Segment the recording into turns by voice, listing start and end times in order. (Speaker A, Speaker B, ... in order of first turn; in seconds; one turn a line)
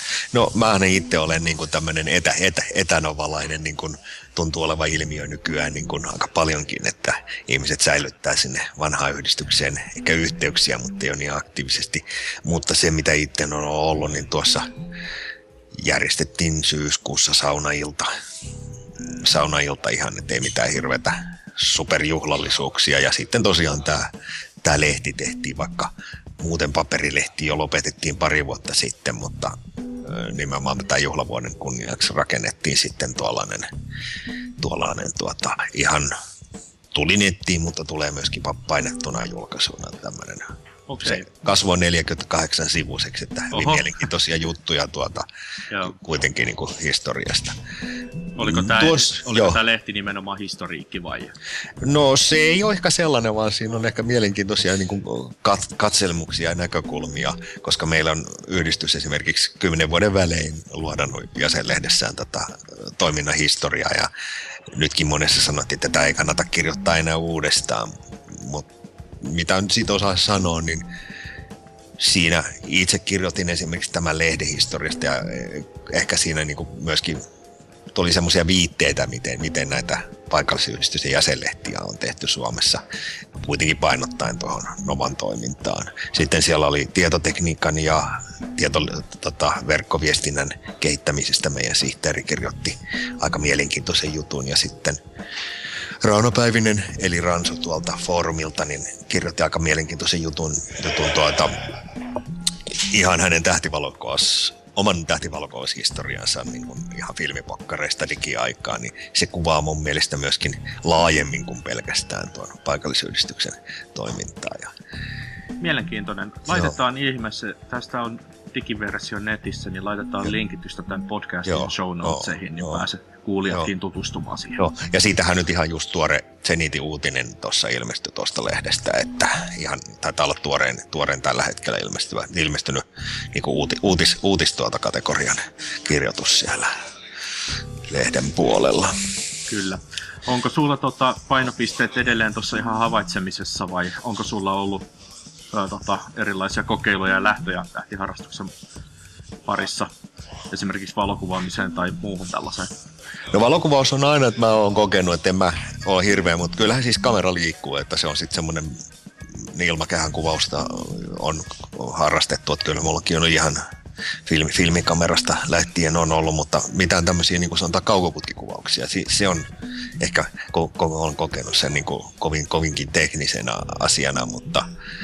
Speaker A: 0.3-14.7
Speaker A: 15.8-18.1
Speaker A: 19.0-24.1
Speaker A: 24.6-33.7
Speaker A: 34.6-36.1
Speaker A: 36.9-45.3
Speaker B: 40.9-41.3
Speaker B: 43.5-43.9
Speaker A: 45.9-47.6
Speaker B: 48.4-51.3
Speaker A: 48.4-49.6
Speaker A: 51.8-64.1
Speaker A: 64.7-68.7
Speaker A: 69.2-70.8
Speaker A: 72.0-77.2
Speaker A: 77.9-82.8
Speaker A: 83.4-95.0
Speaker A: 96.0-101.7
Speaker A: 102.7-114.7
Speaker B: 115.6-124.6
Speaker A: 121.5-122.8
Speaker A: 124.6-136.7
Speaker A: 137.9-138.9
Speaker B: 139.5-144.8
Speaker B: 145.5-148.5
Speaker B: 149.4-149.9
Speaker B: 150.5-152.7
Speaker A: 153.3-158.7
Speaker A: 159.4-163.6
Speaker A: 164.3-169.4
Speaker A: 170.0-174.7